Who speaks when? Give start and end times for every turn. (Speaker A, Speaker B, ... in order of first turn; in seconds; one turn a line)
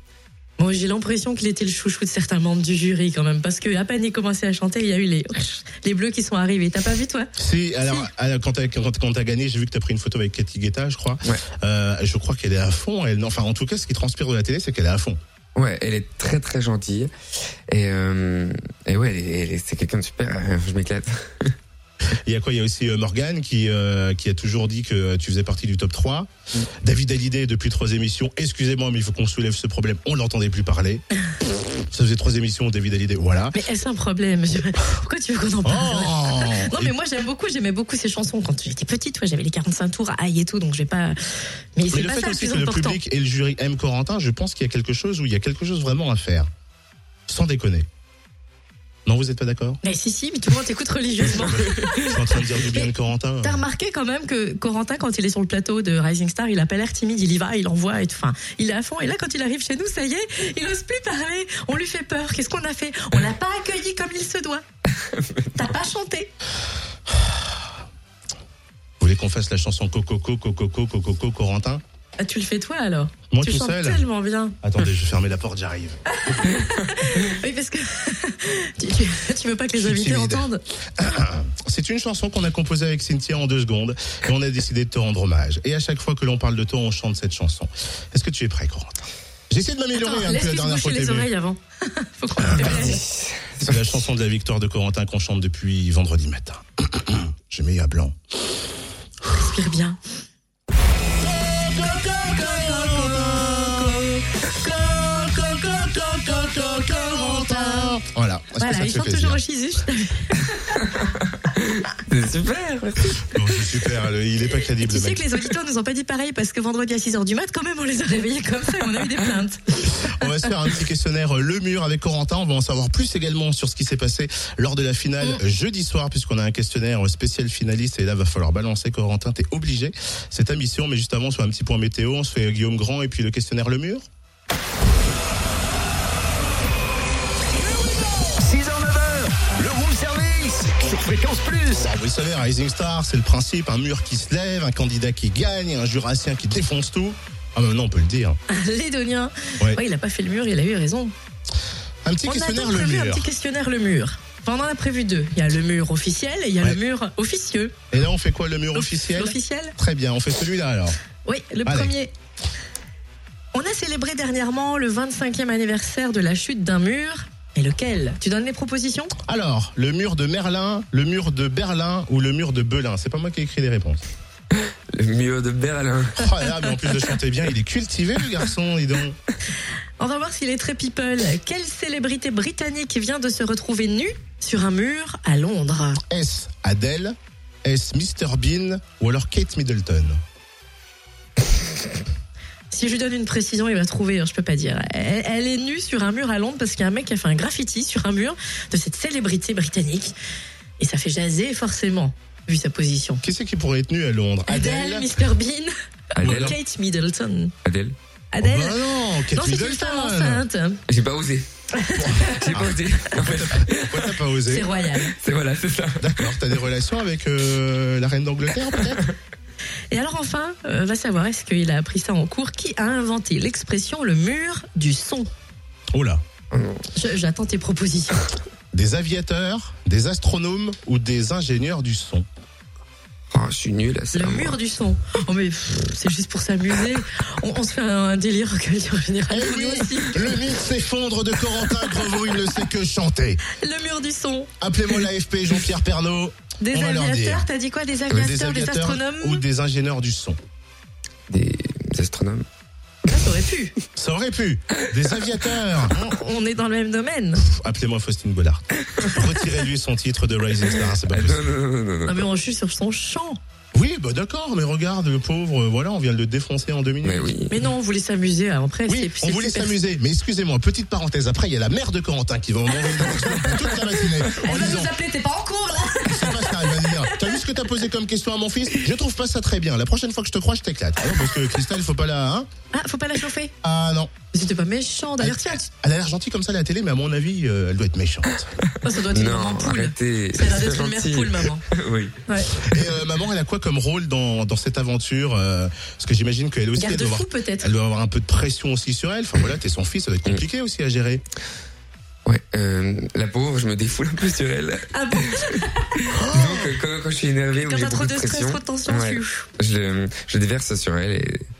Speaker A: 0.6-7.3
Speaker B: 7.3-15.2
Speaker C: 15.5-17.1
Speaker C: 17.7-21.5
Speaker B: 22.2-26.3
Speaker B: 26.8-31.0
Speaker B: 31.9-33.6
Speaker A: 33.5-41.2
Speaker B: 35.6-36.9
Speaker A: 41.8-43.0
Speaker B: 41.9-46.5
Speaker B: 47.3-47.9
Speaker B: 49.0-49.8
Speaker A: 49.8-52.9
Speaker B: 51.4-53.6
Speaker A: 53.4-64.6
Speaker C: 65.0-65.5
Speaker A: 65.5-66.3
Speaker B: 69.0-71.8
Speaker A: 72.2-74.5
Speaker B: 73.3-74.0
Speaker B: 74.6-76.0
Speaker A: 76.1-80.6
Speaker B: 79.7-91.3
Speaker A: 89.9-93.0
Speaker B: 92.4-93.0
Speaker C: 92.6-94.0
Speaker B: 93.6-98.2
Speaker A: 99.3-100.0
Speaker B: 102.2-104.0
Speaker A: 102.5-108.0
Speaker B: 106.6-109.4
Speaker A: 108.6-110.8
Speaker C: 111.0-113.4
Speaker B: 113.3-115.2
Speaker A: 114.8-120.3
Speaker B: 119.9-134.1
Speaker D: 138.4-141.9
Speaker B: 141.8-148.4
Speaker A: 148.5-151.1
Speaker B: 152.0-153.3
Speaker A: 152.2-157.8
Speaker B: 157.9-161.0
Speaker A: 158.7-159.7
Speaker A: 161.2-162.1
Speaker B: 161.6-161.9
Speaker A: 163.5-169.1
Speaker B: 169.2-174.0
Speaker C: 174.6-176.3
Speaker B: 176.2-179.2
Speaker A: 180.0-186.0
Speaker B: 186.1-190.2
Speaker A: 192.7-200.1
Speaker A: 200.8-203.2
Speaker B: 203.2-205.2
Speaker A: 204.5-207.5
Speaker C: 206.2-206.6
Speaker B: 206.2-206.6
Speaker C: 207.6-207.9
Speaker A: 208.3-210.8
Speaker B: 208.4-210.4
Speaker C: 210.9-211.5
Speaker A: 211.7-212.5
Speaker B: 212.0-214.7
Speaker C: 212.3-214.2
Speaker A: 214.5-215.1
Speaker C: 215.0-216.4
Speaker B: 216.0-219.0
Speaker A: 219.9-225.3
Speaker B: 225.9-226.2
Speaker C: 226.5-226.8
Speaker A: 226.9-228.3
Speaker B: 228.7-232.2
Speaker C: 233.3-234.6
Speaker A: 234.1-240.4
Speaker B: 239.3-243.4
Speaker A: 243.5-244.5
Speaker B: 244.6-247.5
Speaker A: 246.6-249.4
Speaker B: 248.1-250.4
Speaker C: 251.3-252.4
Speaker A: 253.1-253.7
Speaker B: 253.9-256.0
Speaker A: 255.9-257.4
Speaker B: 257.4-261.4
Speaker C: 261.1-262.3
Speaker A: 262.1-263.4
Speaker B: 263.7-267.3
Speaker C: 267.0-267.6
Speaker A: 267.5-269.8
Speaker B: 268.9-274.9
Speaker A: 272.9-277.4
Speaker B: 276.0-282.5
Speaker A: 282.7-283.5
Speaker B: 283.6-284.1
Speaker A: 284.3-285.6
Speaker B: 285.2-288.5
Speaker A: 288.8-291.6
Speaker C: 289.1-292.2
Speaker A: 292.3-292.5
Speaker B: 292.6-301.2
Speaker A: 296.8-297.7
Speaker C: 302.2-305.6
Speaker A: 304.9-306.1
Speaker B: 306.1-306.7
Speaker C: 306.2-311.5
Speaker A: 307.6-309.4